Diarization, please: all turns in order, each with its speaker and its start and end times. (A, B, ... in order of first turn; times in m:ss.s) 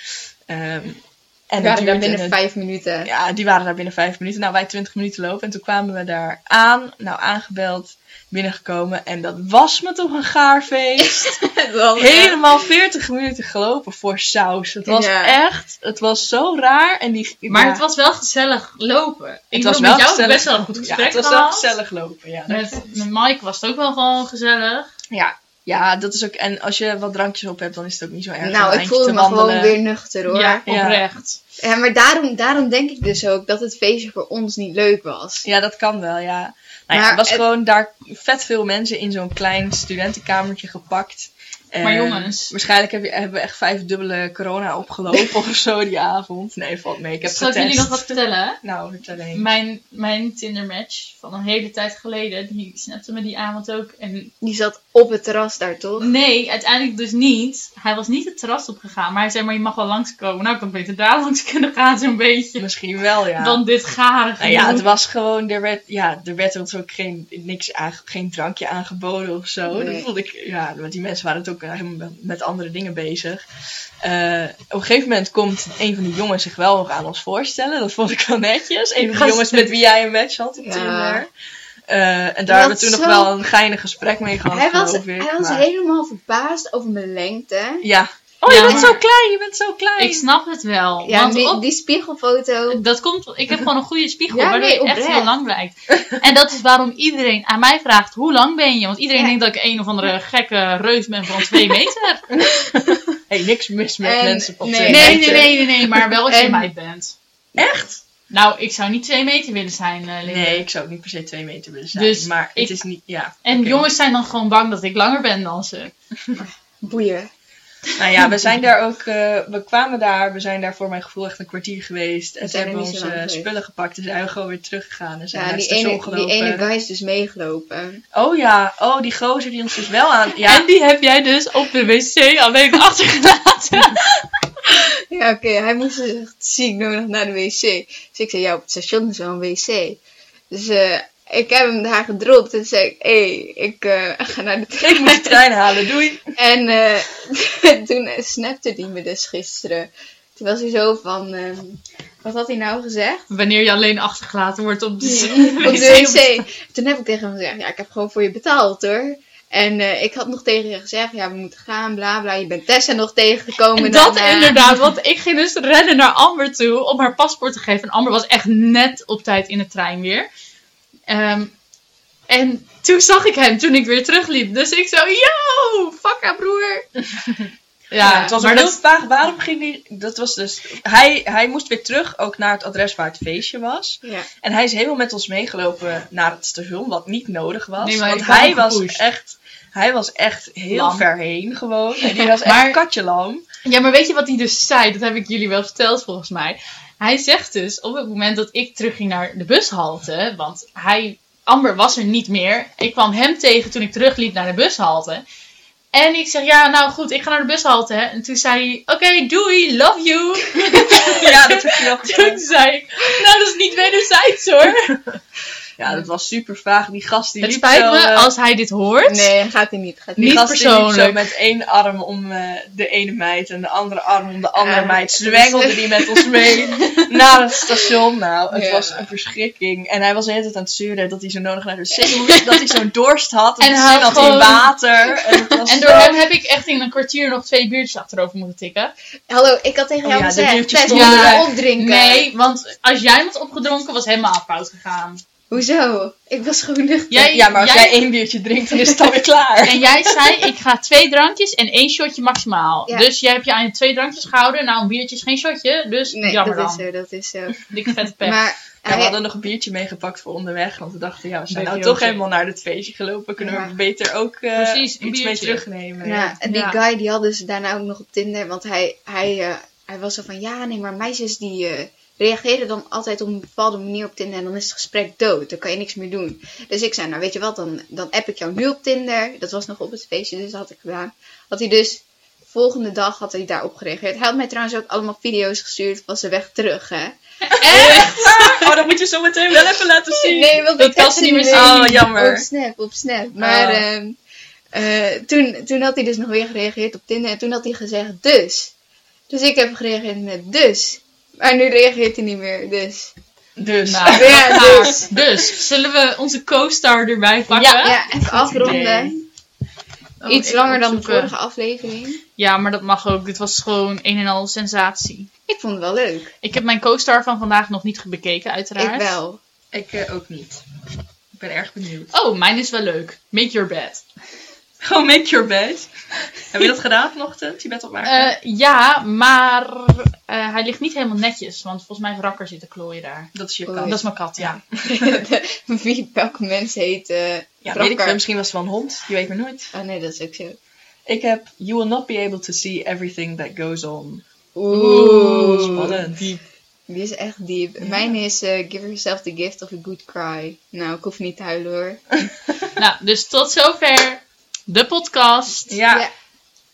0:00.5-0:02.4 A
0:01.6-0:03.1 B
0:03.0-0:11.4 A
0:11.0-0:12.4 B
0:12.0-0:17.8 A
0:14.8-0:15.4 B
0:17.5-0:21.7 C
0:19.5-0:22.8 A
0:22.5-0:24.9 C
0:25.1-0:29.8 A
0:28.4-0:30.6 B
0:30.3-0:31.4 C
0:30.7-0:31.0 A
0:31.6-0:35.4 B
0:35.4-0:49.4 A
0:36.9-0:37.4 B
0:41.8-0:42.5 C
0:47.2-0:48.6 C
0:49.3-0:54.3 C
0:54.4-0:56.1 B
0:56.0-1:02.6 C
1:02.6-1:03.6 A
1:03.4-1:04.9 C
1:04.4-1:13.4 A
1:09.6-1:10.1 B
1:14.0-1:21.3 A
1:19.0-1:19.7 C
1:20.6-1:21.2 B
1:21.9-1:25.6 A
1:22.5-1:23.3 B
1:24.5-1:27.8 B
1:27.8-1:30.2 A
1:28.5-1:29.0 C
1:28.5-1:28.9 B
1:30.0-1:31.6 C
1:31.0-1:32.8 B
1:32.7-1:42.2 C
1:34.3-1:35.3 B
1:42.3-1:46.0 A
1:44.0-1:46.7 B
1:44.9-1:47.1 C
1:47.6-1:48.0 A
1:48.3-1:50.6 C
1:50.2-1:53.8 A
1:51.9-1:52.8 C
1:53.4-1:55.9 C
1:56.4-1:57.3 B
1:58.0-2:06.7 A
1:58.2-1:58.5 C
2:02.4-2:03.5 B
2:05.3-2:08.0 B
2:08.1-2:10.7 A
2:10.4-2:14.0 C
2:14.7-2:20.0 B
2:20.5-2:25.4 B
2:24.8-2:26.2 A
2:26.3-2:33.2 B
2:33.3-2:36.4 C
2:35.0-2:44.6 B
2:43.7-2:50.3 C
2:51.1-2:51.5 C
2:52.3-2:56.8 C
2:57.1-3:13.4 A
2:57.9-2:58.8 C
3:04.0-3:04.3 B
3:07.8-3:09.0 C
3:10.7-3:11.0 C
3:12.4-3:12.8 C
3:13.6-3:25.2 C
3:25.9-3:35.0 C
3:30.7-3:32.4 A
3:34.8-3:35.1 A
3:35.8-3:38.3 A
3:37.4-3:39.3 C
3:39.0-3:40.4 B
3:40.2-3:41.2 C
3:40.2-3:56.1 A
3:44.6-3:47.0 B
3:48.5-3:49.1 B
3:53.6-3:54.7 C
3:55.6-3:58.9 C
3:55.8-3:56.1 B
3:59.3-4:02.3 B
4:00.0-4:01.5 A
4:00.9-4:05.2 C
4:05.5-4:07.4 B
4:07.1-4:08.0 C
4:07.2-4:10.4 A
4:09.6-4:16.8 C
4:16.1-4:17.6 B
4:17.7-4:18.4 C
4:18.2-4:19.2 B
4:18.8-4:26.3 A
4:21.5-4:22.2 C
4:23.4-4:23.7 B
4:24.6-4:25.6 C
4:26.0-4:48.5 B
4:26.4-4:26.8 C
4:47.5-4:48.7 C
4:47.6-4:50.6 A
4:50.1-4:54.2 B
4:50.8-4:52.0 C
4:51.5-4:52.4 A
4:53.4-4:53.8 C
4:54.7-4:58.7 B
4:59.3-5:03.1 B
5:03.6-5:05.0 A
5:03.8-5:08.0 C
5:04.1-5:05.1 B
5:07.5-5:09.1 A
5:07.8-5:09.2 B
5:10.2-5:11.3 C
5:10.2-5:12.2 B
5:12.4-5:15.3 C
5:15.5-5:16.3 B
5:16.4-5:19.2 C
5:18.8-5:19.4 B
5:19.7-5:20.6 A
5:21.3-5:22.1 A
5:22.1-5:24.0 C
5:24.8-5:28.3 A
5:28.0-5:33.3 C
5:33.3-5:35.2 A
5:33.6-5:38.2 B
5:33.8-5:34.6 C
5:37.6-5:39.7 A
5:39.7-5:40.6 B
5:41.0-5:44.2 A
5:44.6-5:46.0 B
5:44.7-5:46.4 C
5:45.5-5:46.3 A
5:46.9-5:52.0 B
5:47.8-5:48.1 A
5:52.8-5:55.8 C
5:55.7-5:56.1 A